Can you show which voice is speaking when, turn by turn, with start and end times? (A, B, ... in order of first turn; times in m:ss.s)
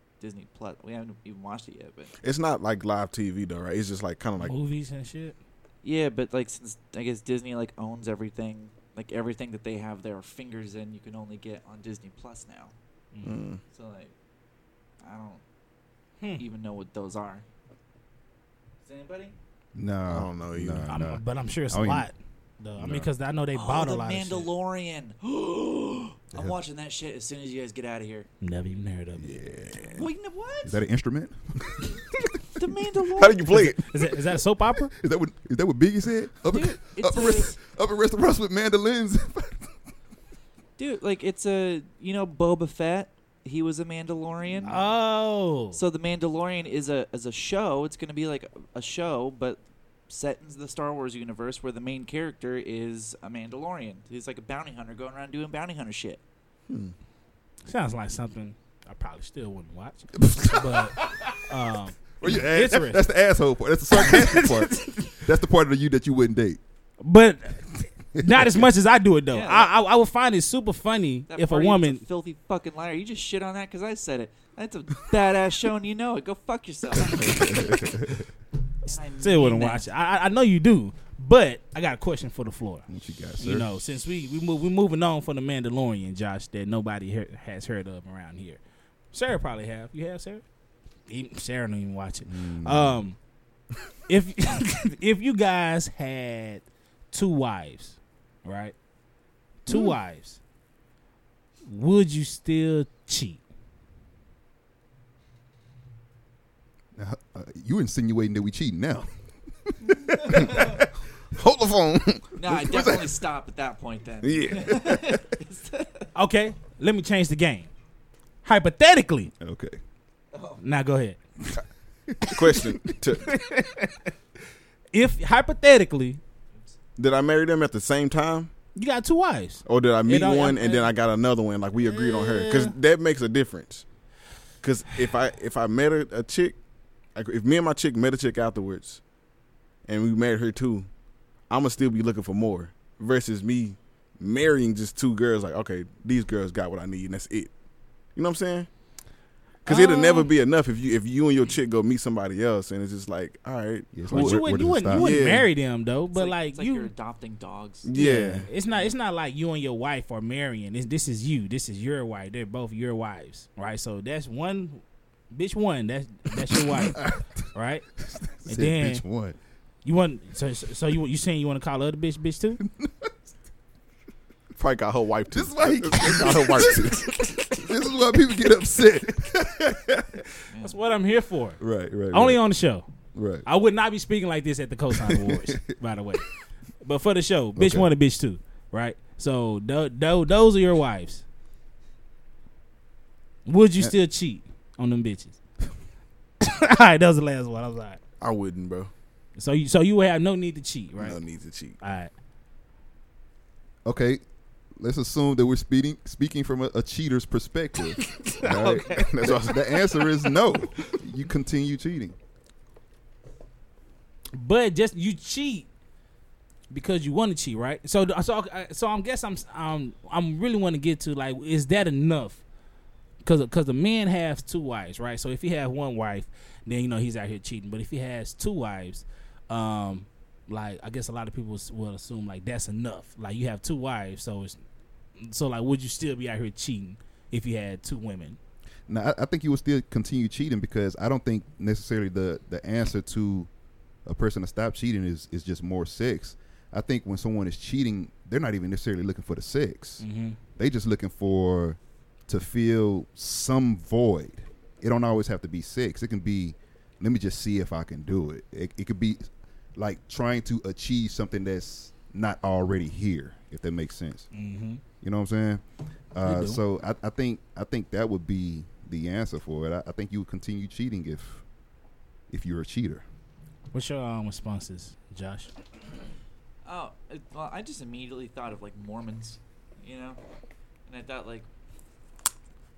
0:00.2-0:02.1 A
0:02.2-0:04.5 B
0:04.4-0:05.4 C
0:05.8-0:12.7 A
0:13.2-0:13.6 B
0:13.7-0:14.1 A
0:15.0-0:15.4 A
0:16.4-0:17.4 A
0:18.8-0:19.4 A
0:19.8-0:22.1 D
0:20.1-0:20.9 B
0:20.9-0:24.5 C
0:22.8-0:23.1 D
0:23.5-0:28.3 A
0:28.4-0:29.4 C
0:29.2-0:30.0 D
0:29.8-0:30.8 A
0:30.6-0:32.6 D
0:32.5-0:33.5 A
0:33.2-0:33.8 B
0:33.5-0:34.9 C
0:34.8-0:39.8 D
0:36.5-0:37.5 A
0:40.8-0:44.8 A
0:44.6-0:45.8 C
0:45.7-0:56.2 A
0:56.7-0:56.9 B
0:57.7-1:03.0 C
1:00.2-1:01.4 D
1:02.2-1:06.6 D
1:03.9-1:05.2 C
1:07.0-1:12.0 C
1:08.2-1:08.6 D
1:09.3-1:09.7 A
1:11.3-1:17.8 A
1:17.1-1:18.2 D
1:18.8-1:19.9 A
1:18.8-1:22.8 C
1:22.9-1:23.7 D
1:23.4-1:28.6 C
1:29.1-1:30.4 C
1:31.1-1:33.2 C
1:32.2-1:33.0 D
1:34.1-1:38.7 C
1:39.6-1:40.4 C
1:41.6-1:43.4 C
1:47.0-1:49.1 D
1:49.7-1:50.9 D
1:50.3-1:50.7 B
1:51.3-1:52.4 B
1:52.4-1:56.1 A
1:52.5-1:53.2 D
1:54.2-1:55.1 B
1:56.1-1:57.7 C
1:58.4-1:59.3 C
1:59.4-1:59.8 D
2:00.3-2:00.6 A
2:00.6-2:01.2 C
2:02.1-2:02.9 D
2:02.2-2:03.3 B
2:03.2-2:04.1 C
2:04.9-2:06.2 C
2:07.0-2:08.5 B
2:08.7-2:10.9 C
2:09.6-2:13.8 B
2:11.8-2:12.7 C
2:14.6-2:16.6 B
2:17.1-2:19.0 B
2:19.8-2:20.9 B
2:21.5-2:27.5 B
2:28.1-2:28.7 B
2:29.6-2:35.5 B
2:29.6-2:30.3 C
2:33.9-2:35.2 D
2:34.1-2:36.9 C
2:36.1-2:37.9 A
2:37.8-2:38.5 B
2:37.9-2:47.8 C
2:46.5-2:49.4 D
2:48.5-2:49.0 C
2:49.8-2:52.6 C
2:52.6-2:53.2 D
2:54.6-2:57.7 B
2:55.3-3:00.3 D
3:00.5-3:00.8 A
3:00.6-3:02.9 C
3:01.6-3:02.4 D
3:03.1-3:03.4 D
3:03.4-3:06.3 C
3:05.0-3:05.7 D
3:06.8-3:11.2 C
3:07.6-3:07.9 D
3:13.4-3:15.4 C
3:16.4-3:18.0 C
3:18.2-3:18.9 B
3:19.4-3:21.2 C
3:21.0-3:21.8 B
3:21.8-3:22.1 C
3:23.8-3:24.2 D
3:24.8-3:32.2 D
3:28.2-3:30.1 B
3:28.4-3:29.3 A
3:34.3-3:35.7 C
3:36.7-3:42.4 C
3:43.2-3:54.6 C
3:55.2-3:58.4 C
3:58.9-4:03.5 D
4:04.0-4:10.0 D
4:10.0-4:10.4 C
4:10.6-4:24.3 D
4:24.3-4:24.8 C
4:25.0-4:25.6 D
4:26.1-4:31.4 D
4:26.2-4:26.6 C
4:32.3-4:33.0 D
4:33.7-4:35.5 C
4:36.6-4:40.2 A
4:40.9-4:41.5 A